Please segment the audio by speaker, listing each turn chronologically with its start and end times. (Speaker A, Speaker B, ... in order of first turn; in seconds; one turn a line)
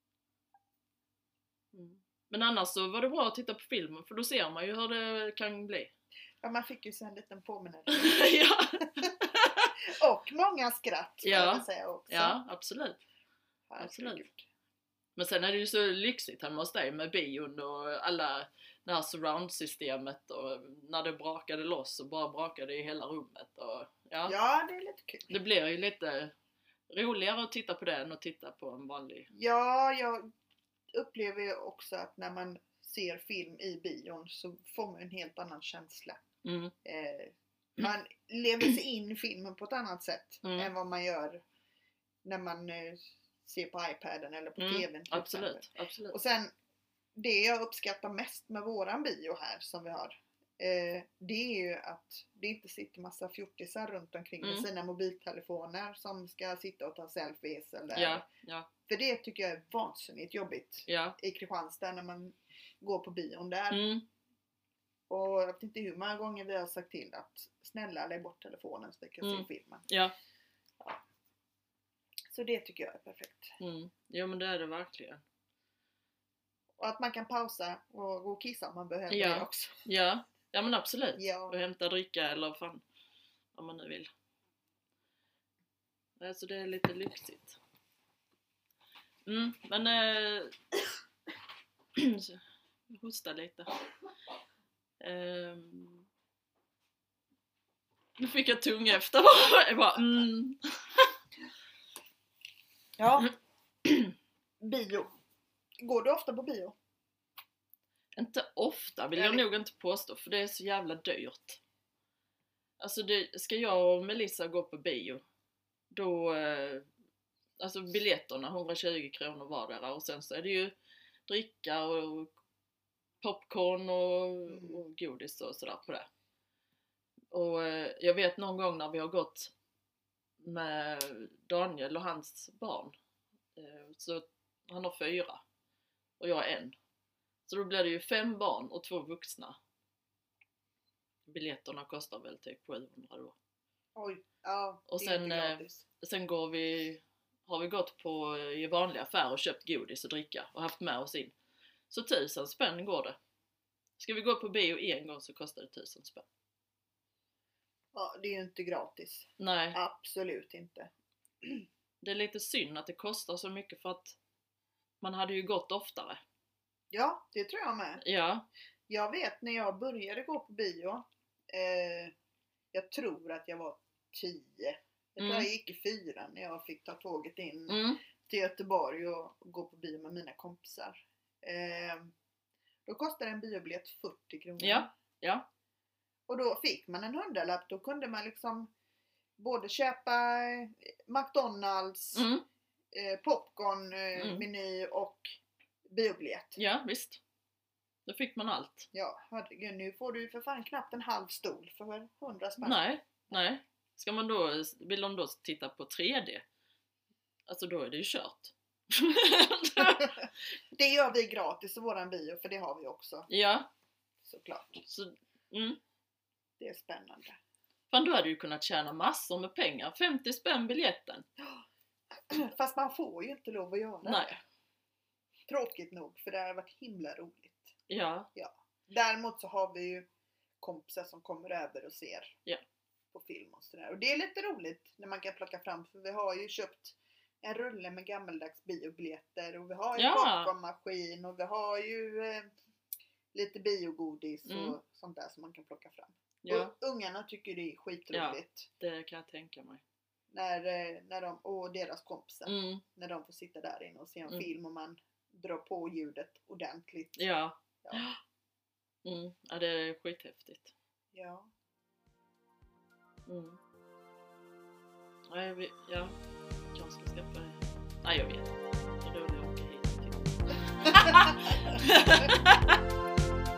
Speaker A: 1.7-5.9
Speaker B: 6.4-8.4
Speaker A: 7.9-9.7
Speaker B: 9.9-12.4
Speaker A: 11.2-13.0
Speaker B: 13.7-14.4
Speaker A: 13.8-14.2
Speaker A: 15.2-24.3
Speaker B: 24.2-25.3
Speaker A: 25.3-26.3
Speaker A: 26.9-29.3
Speaker B: 29.3-30.3
Speaker B: 30.9-36.2
Speaker A: 36.4-36.7
Speaker B: 36.8-41.4
Speaker A: 40.4-40.7
Speaker B: 42.2-46.5
Speaker A: 44.6-46.1
Speaker B: 47.1-58.2
Speaker A: 54.4-54.7
Speaker A: 57.9-58.7
Speaker B: 58.9-63.9
Speaker A: 60.9-61.2
Speaker A: 63.7-64.0
Speaker B: 65.1-69.8
Speaker A: 69.2-70.1
Speaker B: 72.3-73.5
Speaker A: 73.6-75.2
Speaker B: 76.8-79.8
Speaker A: 79.1-82.8
Speaker B: 81.2-81.5
Speaker A: 83.5-84.1
Speaker A: 86.2-87.6
Speaker A: 89.2-90.6
Speaker A: 92.0-93.8
Speaker A: 95.0-96.1
Speaker A: 98.2-100.6
Speaker B: 103.0-103.3
Speaker A: 103.8-104.1
Speaker B: 104.6-105.1
Speaker B: 105.8-106.7
Speaker A: 108.1-111.6
Speaker B: 109.1-109.4
Speaker A: 112.8-115.2
Speaker A: 115.9-116.9
Speaker A: 117.6-120.7
Speaker A: 121.3-122.3
Speaker A: 123.2-126.1
Speaker B: 124.5-124.8
Speaker A: 127.3-129.5
Speaker A: 130.4-132.9
Speaker A: 133.6-135.4
Speaker A: 136.2-136.7
Speaker A: 137.5-139.6
Speaker A: 141.3-143.3
Speaker B: 143.9-145.8
Speaker A: 144.9-151.3
Speaker A: 151.9-153.2
Speaker A: 154.0-156.2
Speaker B: 157.9-160.9
Speaker A: 159.4-159.8
Speaker A: 162.0-164.2
Speaker A: 165.0-166.2
Speaker B: 166.9-168.0
Speaker A: 168.0-168.5
Speaker B: 168.9-172.1
Speaker B: 172.7-182.1
Speaker A: 175.2-175.5
Speaker A: 177.7-178.0
Speaker B: 182.8-184.9
Speaker A: 184.6-185.4
Speaker B: 186.3-188.7
Speaker B: 189.4-192.3
Speaker A: 192.1-192.4
Speaker B: 192.9-195.4
Speaker A: 194.2-194.5
Speaker B: 195.9-196.6
Speaker A: 196.6-197.2
Speaker A: 198.1-198.9
Speaker B: 198.9-202.8
Speaker A: 202.6-206.4
Speaker A: 207.5-210.2
Speaker B: 210.7-213.3
Speaker A: 213.3-213.7
Speaker B: 214.2-214.8
Speaker A: 214.8-215.8
Speaker B: 216.6-217.4
Speaker A: 217.9-221.2
Speaker B: 222.3-224.4
Speaker A: 224.0-224.4
Speaker B: 225.5-227.7
Speaker A: 227.9-228.3
Speaker B: 228.3-230.1
Speaker B: 230.6-232.3
Speaker B: 233.1-242.5
Speaker A: 240.0-240.5
Speaker B: 243.3-248.7
Speaker A: 244.5-244.8
Speaker A: 246.4-246.7
Speaker A: 248.1-249.8
Speaker B: 250.3-257.3
Speaker A: 252.4-252.8
Speaker A: 257.2-258.2
Speaker A: 259.0-260.7
Speaker B: 261.1-261.5
Speaker A: 263.3-263.6
Speaker A: 265.3-266.1
Speaker A: 266.7-272.8
Speaker B: 271.3-271.8